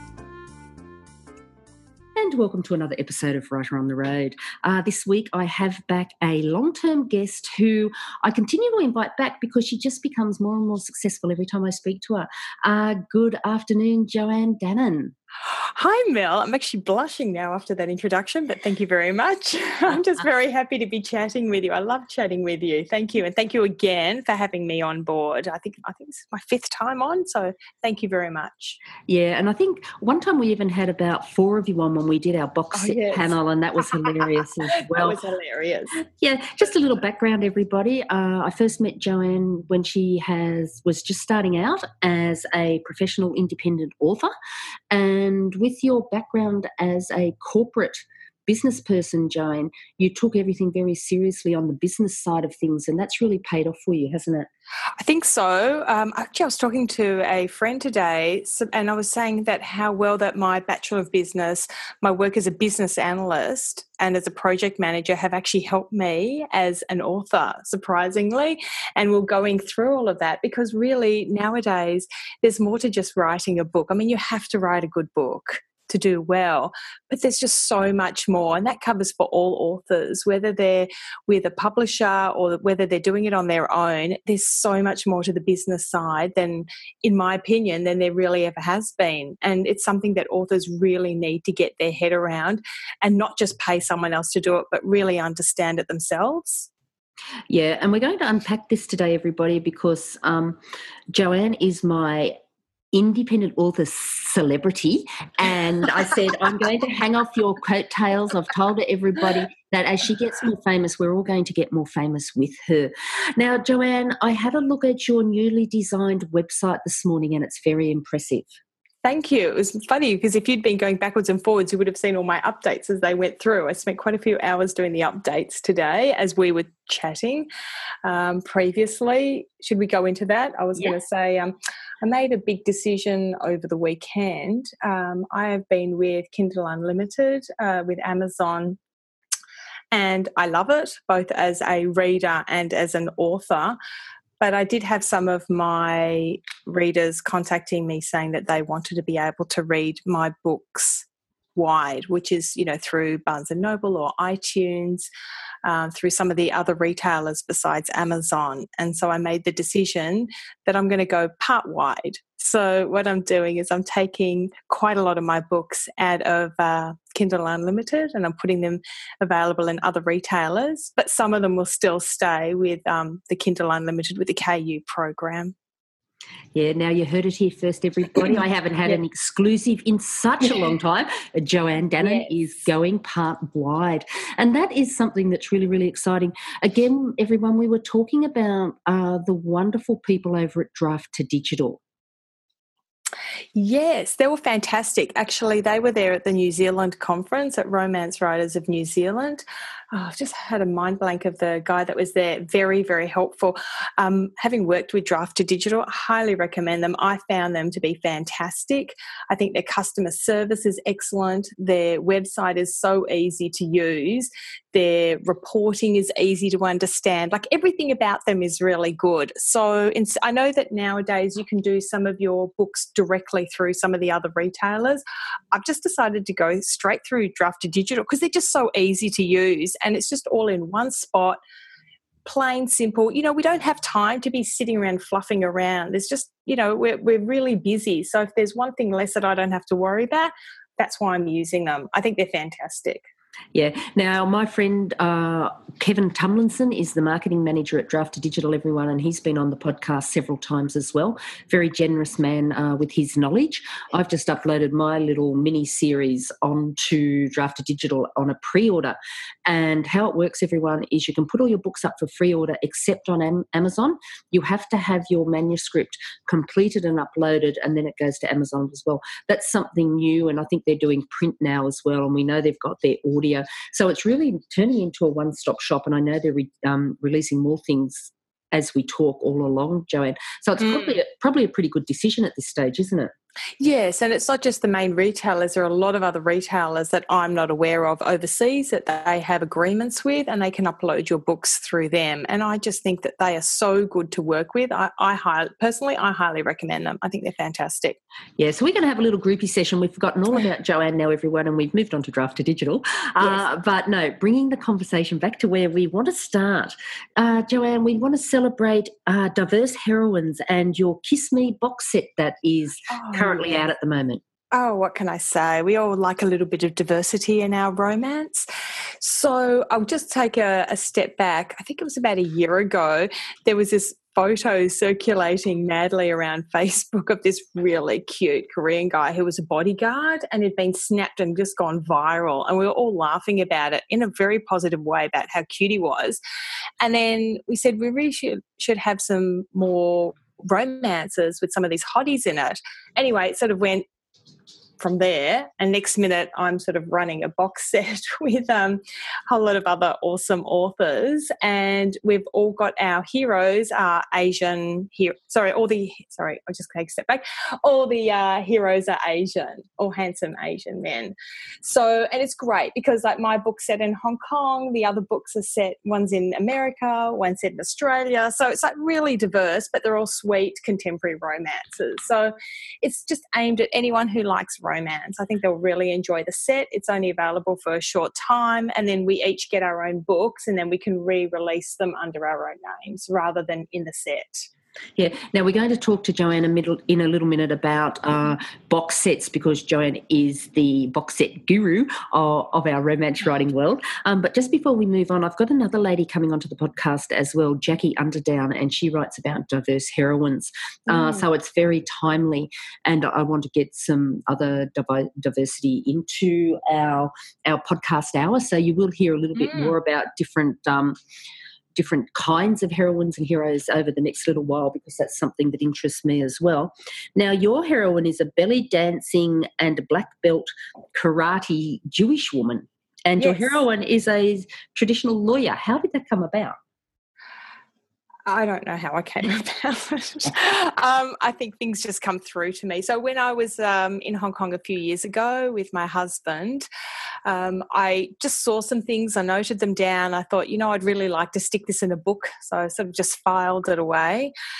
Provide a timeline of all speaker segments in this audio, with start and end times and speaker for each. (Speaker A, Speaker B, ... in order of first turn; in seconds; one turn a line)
Speaker A: 2.2-15.1
Speaker B: 15.5-28.8
Speaker A: 29.1-35.2
Speaker B: 32.7-33.4
Speaker B: 34.7-36.0
Speaker A: 36.0-44.3
Speaker A: 44.9-54.5
Speaker B: 55.0-96.7
Speaker A: 97.5-100.6
Speaker A: 101.1-102.3
Speaker A: 102.9-118.5
Speaker B: 119.0-127.5
Speaker B: 128.0-138.8
Speaker B: 139.9-143.8
Speaker B: 144.4-151.0
Speaker B: 151.6-155.1
Speaker B: 155.6-175.5
Speaker A: 176.5-191.8
Speaker B: 193.5-231.4
Speaker B: 232.2-243.0
Speaker A: 243.5-283.1
Speaker B: 280.6-280.9
Speaker B: 283.6-298.0
Speaker A: 298.4-314.2
Speaker B: 312.9-313.6
Speaker B: 314.5-318.4
Speaker B: 319.0-336.2
Speaker B: 336.8-343.8
Speaker B: 344.8-384.5
Speaker A: 384.9-411.0
Speaker B: 400.9-401.2
Speaker B: 409.4-409.7
Speaker A: 411.7-426.6
Speaker B: 423.2-423.6
Speaker B: 428.3-436.7
Speaker B: 437.2-444.3